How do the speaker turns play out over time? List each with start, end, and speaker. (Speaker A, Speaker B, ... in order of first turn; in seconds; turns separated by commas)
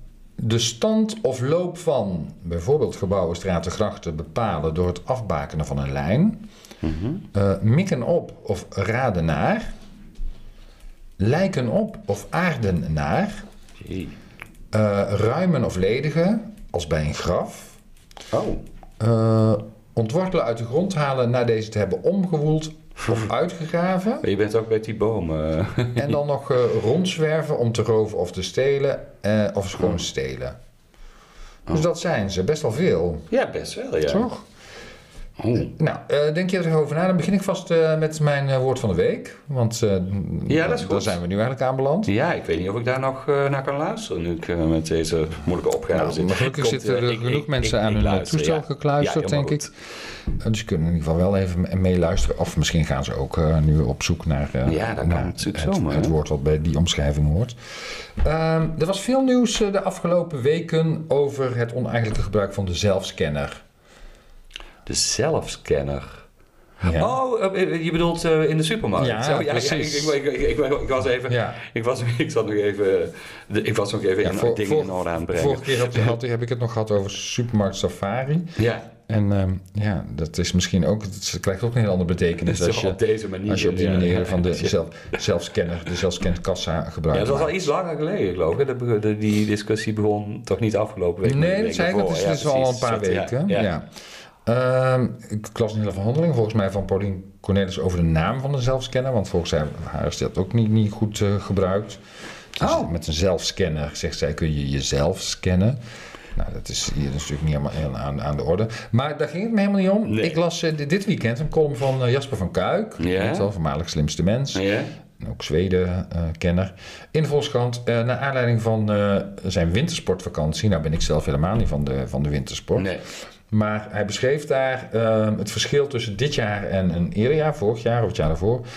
Speaker A: 0.4-6.4, Speaker B: 6.8-7.2, Speaker A: 7.3-9.7, Speaker A: 11.2-13.4, Speaker B: 13.8-14.1, Speaker A: 14.7-17.8, Speaker B: 18.3-18.6, Speaker A: 19.0-24.2, Speaker B: 23.0-23.3, Speaker B: 24.2-26.1, Speaker A: 25.9-30.6, Speaker A: 31.7-33.3, Speaker B: 33.3-34.3, Speaker A: 34.1-34.4, Speaker B: 35.4-35.7, Speaker A: 35.7-42.1, Speaker B: 40.5-41.1, Speaker B: 42.0-49.7, Speaker A: 45.9-49.7, Speaker A: 50.3-63.6, Speaker B: 54.6-56.1, Speaker B: 64.8-66.2, Speaker B: 66.8-76.1, Speaker A: 66.8-67.1, Speaker A: 69.0-70.2, Speaker A: 71.3-71.6, Speaker A: 74.2-78.5, Speaker B: 78.5-78.9, Speaker A: 79.1-87.7, Speaker B: 82.4-85.2, Speaker B: 87.1-93.7, Speaker A: 91.2-93.9, Speaker A: 94.5-102.0, Speaker A: 102.5-105.8, Speaker B: 102.6-102.9, Speaker A: 106.3-114.7, Speaker B: 110.0-110.4, Speaker B: 113.0-113.5, Speaker B: 114.5-114.9, Speaker A: 115.2-122.9, Speaker B: 122.8-123.0, Speaker A: 123.5-128.6